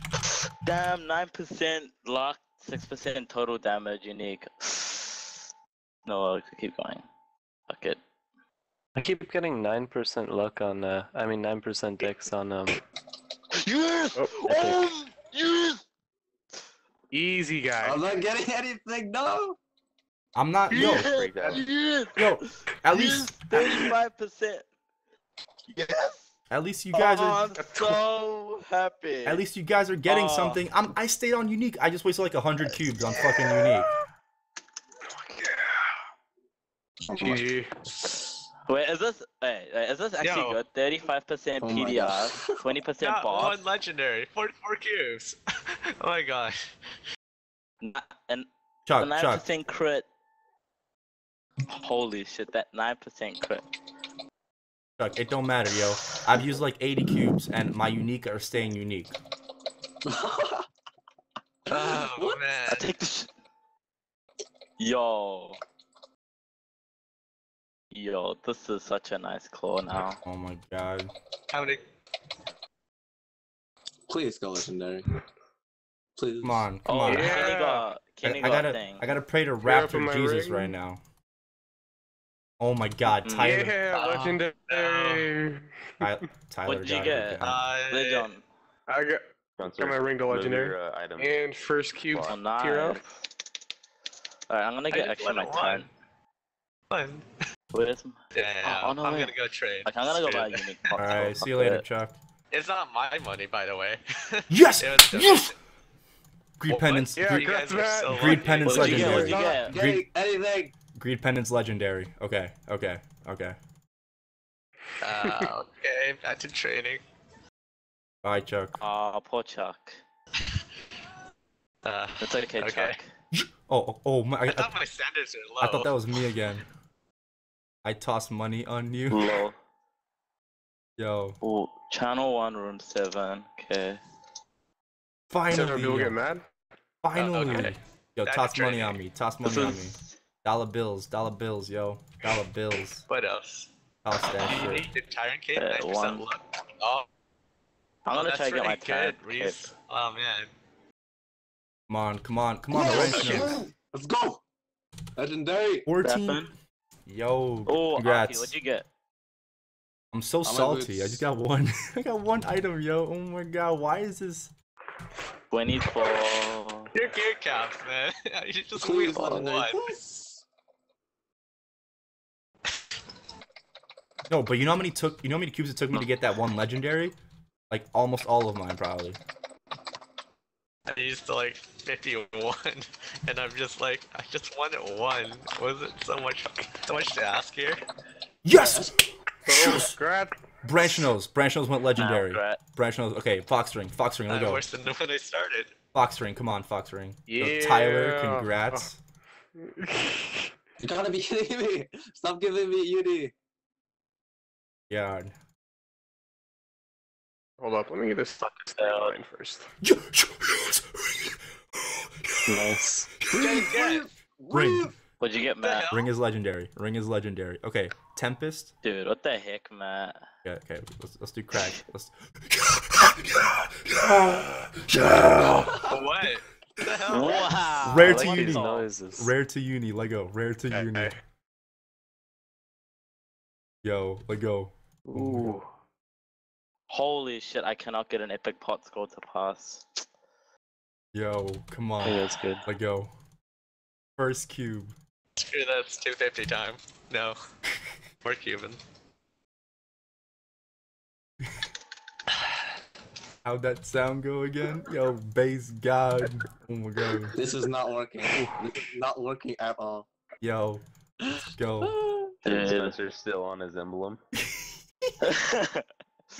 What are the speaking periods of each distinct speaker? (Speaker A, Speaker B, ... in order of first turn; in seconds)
Speaker A: 0.6-5.4, 6.0-7.0, 7.7-8.0, 13.5-15.8, 20.7-24.6, 25.7-26.2, 26.9-29.4, 30.1-30.6, 38.7-43.6, 47.8-48.5, 49.0-50.0, 51.7-53.6, 62.7-63.3, 64.8-65.6, 67.9-70.2, 76.8-79.0, 83.2-83.5, 86.7-88.4, 92.2-93.2, 94.5-95.9, 97.7-99.3, 99.8-101.8, 108.7-109.7, 118.8-120.0, 122.2-123.1, 129.1-129.6, 131.4-134.0, 139.4-140.1, 145.6-146.3, 148.1-149.7, 156.0-156.5, 157.7-158.9, 165.5-167.0, 192.0-192.6, 208.8-209.1, 215.2-215.9, 218.8-220.2, 227.1-228.9, 236.9-240.0, 262.4-263.0, 265.2-265.8
Speaker B: 8.9-12.8, 14.5-14.8, 212.5-213.1, 227.9-229.3, 235.1-235.7, 242.0-242.6
Speaker C: 17.1-18.0, 20.8-21.6, 27.6-28.0, 37.2-37.7, 77.1-77.8, 79.6-80.7, 83.4-86.1, 88.9-93.0, 107.2-109.7, 135.5-136.4, 189.4-190.4, 197.3-198.9, 199.6-200.5, 207.6-209.7, 230.7-231.1
Speaker D: 17.8-19.6, 37.1-37.5, 41.6-42.7, 60.0-60.7, 61.7-62.4, 74.1-75.1, 76.2-76.7, 109.1-110.7, 152.7-154.4, 155.2-155.9, 160.4-161.2, 168.7-170.4, 188.5-189.0, 200.8-203.3, 213.3-214.9, 225.4-225.9, 257.3-260.1
Speaker E: 20.4-21.1, 22.1-23.8, 26.5-27.4, 29.2-33.9, 48.9-49.4, 55.0-59.1, 70.2-71.1, 76.4-77.5, 78.2-81.0, 82.6-83.7, 86.0-87.6, 101.0-102.2, 104.5-105.5, 106.6-107.4, 108.1-110.0, 110.9-113.6, 118.2-118.8, 123.3-124.7, 125.6-126.6, 127.8-129.4, 131.0-131.4, 135.3-136.1, 137.0-143.0, 144.0-144.9, 151.9-153.6, 155.8-156.5, 157.1-158.5, 160.1-164.5, 174.3-177.2, 177.7-179.2, 188.4-190.0, 190.6-194.6, 195.9-199.0, 204.9-205.3, 209.8-213.5, 214.5-214.9, 215.9-218.7, 220.4-225.9, 227.8-231.1, 233.8-235.6, 241.1-243.1, 244.2-244.9, 253.4-257.4, 260.4-260.8, 261.5-261.9, 264.4-265.1
Speaker F: 21.0-21.6, 89.6-91.3, 92.1-92.4, 262.4-264.2
Speaker G: 40.2-40.6, 43.0-45.4, 46.0-46.7, 61.7-62.9, 71.5-71.8, 83.9-85.3, 87.4-88.3, 94.9-95.9, 96.9-97.2, 98.3-100.9, 102.5-105.5, 106.7-109.2, 115.0-117.0, 121.8-123.0, 124.5-125.9, 137.1-139.0, 143.1-143.7, 144.4-147.1, 148.1-150.5, 152.9-153.5, 166.9-169.9, 180.9-187.8, 194.3-195.7, 213.3-214.1, 215.6-216.1, 225.9-227.5, 245.3-247.3, 248.2-248.8